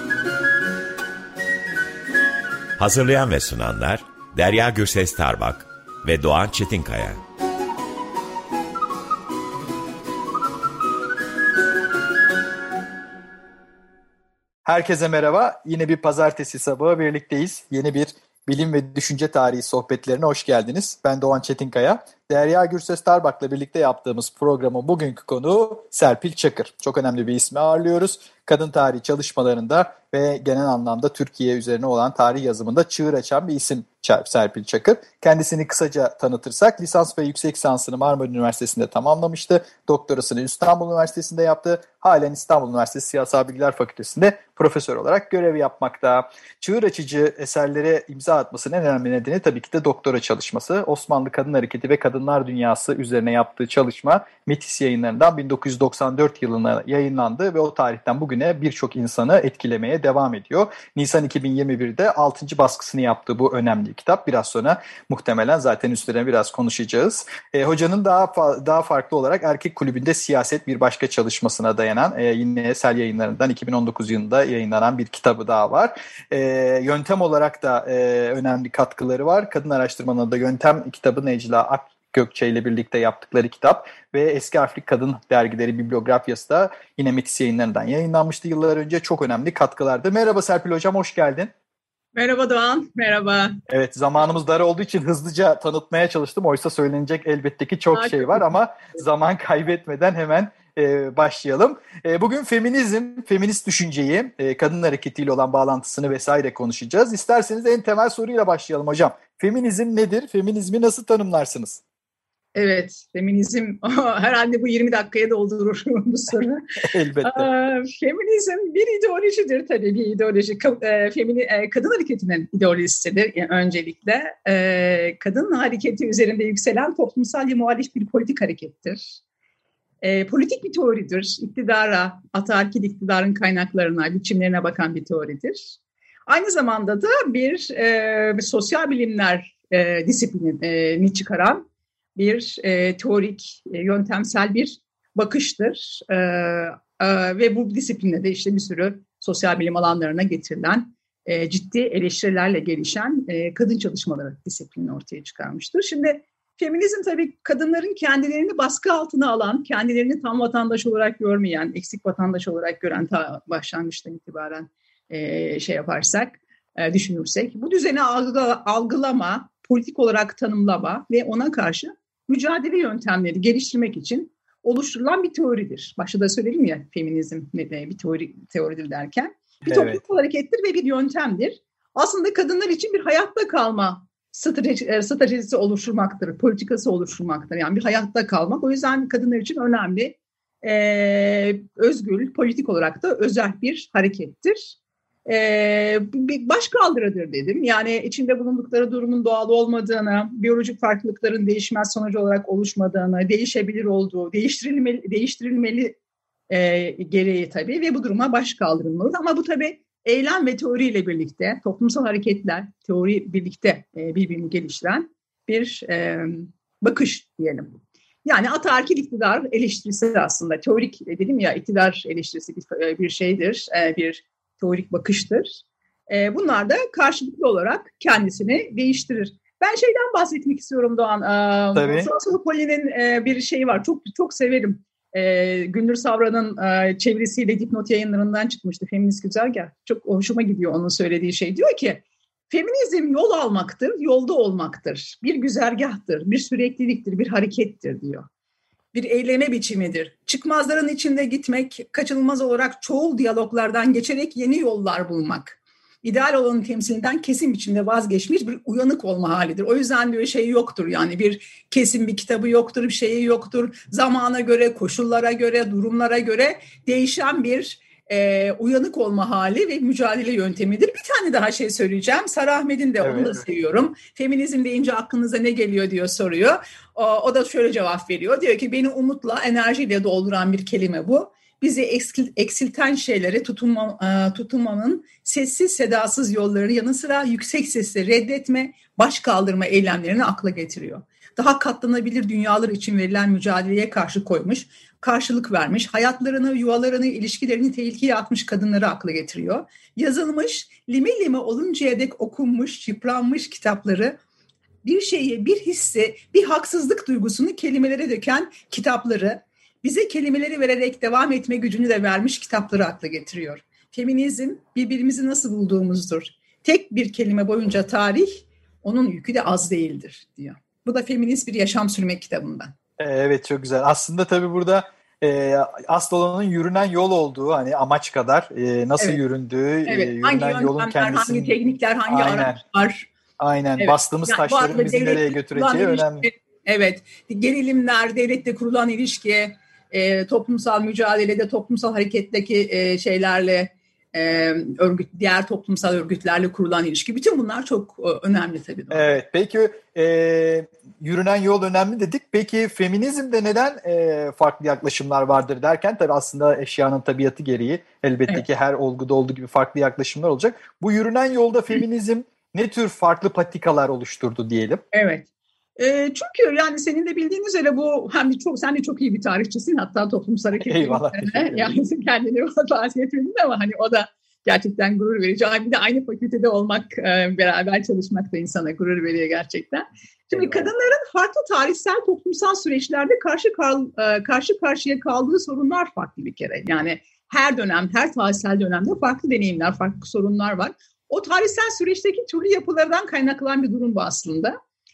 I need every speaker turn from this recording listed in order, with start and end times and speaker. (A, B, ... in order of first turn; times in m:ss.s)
0:02.8-0:07.2 A
0:14.6-1:31.5 B
1:32.1-1:33.5 C
1:33.7-1:51.8 B
1:37.9-1:38.5 C
1:52.5-1:56.6 C
1:56.8-1:57.5 B
1:57.2-2:09.2 C
2:10.0-2:21.6 C
2:22.1-3:14.7 C
2:59.6-3:00.0 B
3:15.3-3:26.0 C
3:26.5-3:37.7 C
3:38.2-4:08.2 C
3:51.7-3:52.1 B
4:08.9-5:04.2 C
4:33.0-4:33.4 B
5:04.8-5:22.7 C
5:23.0-5:32.6 B
5:29.8-5:33.1 C
5:33.4-5:36.3 B
5:33.8-5:49.1 C
5:48.9-6:04.8 B
6:04.9-6:34.5 C
6:10.6-6:11.8 B
6:20.3-6:20.7 B